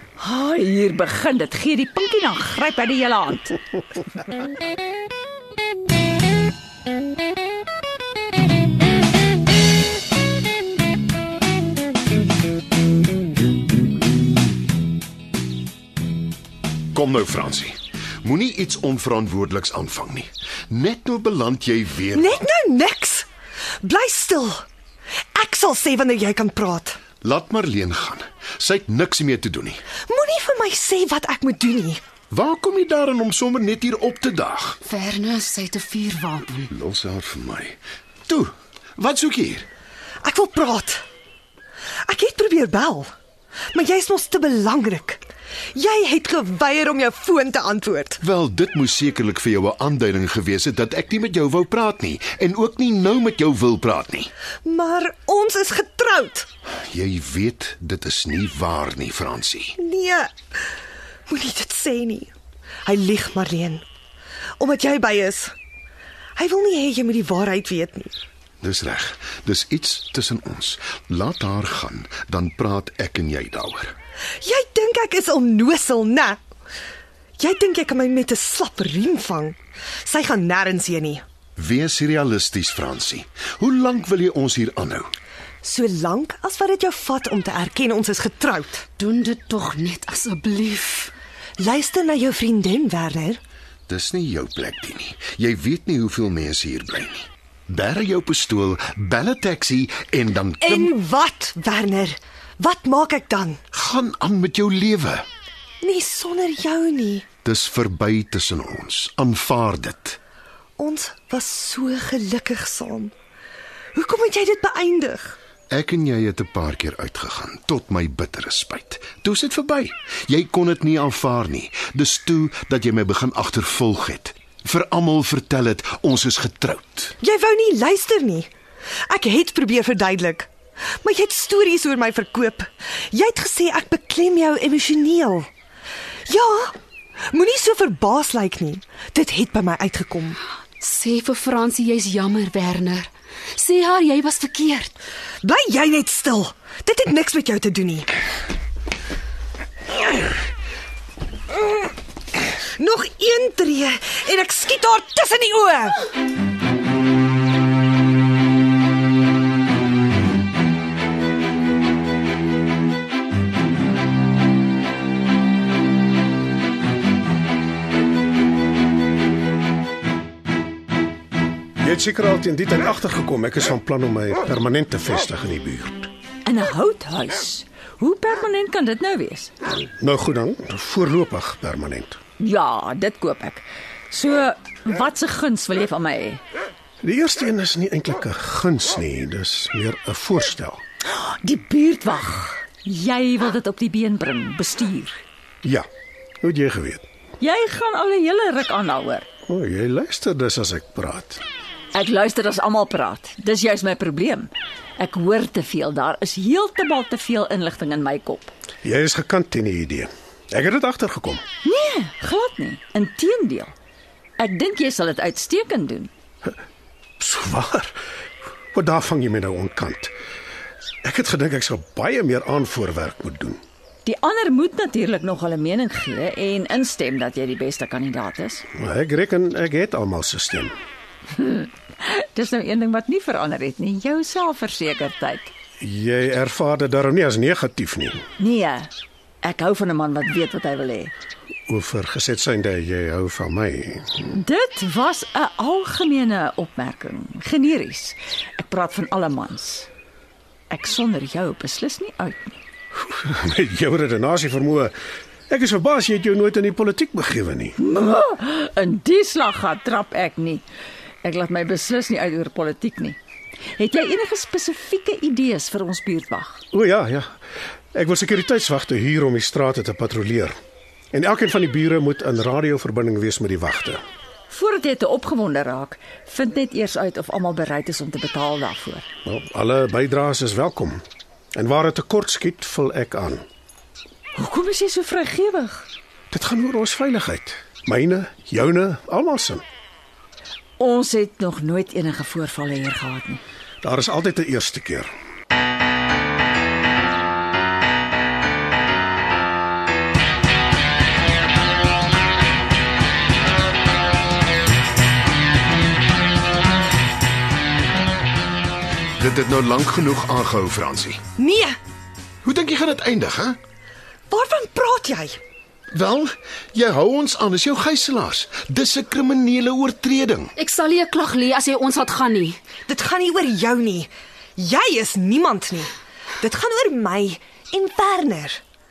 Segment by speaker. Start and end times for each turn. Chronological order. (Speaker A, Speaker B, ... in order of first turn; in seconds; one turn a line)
Speaker A: 0.2-3.6
Speaker B: 16.9-22.4
Speaker C: 22.1-23.3
Speaker C: 23.8-24.6
Speaker C: 25.3-27.0
Speaker B: 27.2-29.8
Speaker C: 30.1-32.0
Speaker B: 32.3-34.8
Speaker D: 34.8-36.6
Speaker B: 36.7-39.7
Speaker C: 40.2-41.0
Speaker C: 42.1-43.1
Speaker C: 43.7-45.2
Speaker C: 45.7-48.2
Speaker B: 48.2-54.3
Speaker C: 54.6-56.5
Speaker B: 56.8-59.8
Speaker C: 59.8-60.3
Speaker C: 61.3-62.3
Speaker C: 62.9-63.8
Speaker C: 64.6-65.5
Speaker C: 66.3-68.1
Speaker B: 68.6-73.9
Speaker C: 74.4-76.4
Speaker C: 77.4-81.2
Speaker B: 81.5-85.1
Speaker C: 85.6-88.8
Speaker D: 89.0-91.1
Speaker C: 91.6-93.4
Speaker B: 93.9-100.9
Speaker C: 100.6-103.6
Speaker B: 103.7-105.2
Speaker C: 105.8-107.3
Speaker B: 107.4-110.2
Speaker C: 110.8-113.1
Speaker C: 113.9-115.4
Speaker B: 115.7-127.1
Speaker C: 127.2-128.5
Speaker C: 129.1-130.5
Speaker C: 131.0-135.5
Speaker C: 136.3-136.7
Speaker C: 137.3-140.4
Speaker D: 140.8-144.9
Speaker C: 145.4-148.1
Speaker C: 152.8-156.0
Speaker E: 171.8-176.1
Speaker A: 176.4-179.5
Speaker E: 180.0-182.2
Speaker A: 182.4-186.4
Speaker E: 187.0-190.8
Speaker A: 191.1-195.2
Speaker E: 196.4-197.0
Speaker A: 197.4-199.3
Speaker E: 199.5-201.4
Speaker A: 201.9-208.5
Speaker E: 208.8-211.4
Speaker A: 211.6-213.7
Speaker A: 214.4-216.1
Speaker E: 217.2-218.0
Speaker E: 218.7-220.1
Speaker E: 221.0-223.6
Speaker A: 224.0-228.6
Speaker E: 228.7-230.7
Speaker A: 231.3-235.5
Speaker E: 235.8-238.2
Speaker A: 238.4-238.9
Speaker A: 239.4-241.1
Speaker E: 241.7-244.3
Speaker A: 244.3-249.9
Speaker A: 250.7-252.6
Speaker E: 253.1-254.9
Speaker E: 255.5-257.8
Speaker A: 257.8-260.6
Speaker A: 261.2-263.2
Speaker A: 263.8-266.6
Speaker E: 266.7-267.4
Speaker E: 267.9-270.6
Speaker E: 271.1-274.0
Speaker A: 274.5-279.1
Speaker E: 279.2-281.0
Speaker E: 281.6-283.4
Speaker A: 284.3-285.9
Speaker E: 286.3-289.6
Speaker A: 290.8-293.4
Speaker E: 293.8-295.1
Speaker B: 309.2-311.2
Speaker C: 311.4-311.8
Speaker B: 312.4-313.6
Speaker C: 314.3-315.4
Speaker B: 315.9-320.5
Speaker D: 320.6-322.6
Speaker C: 322.9-328.6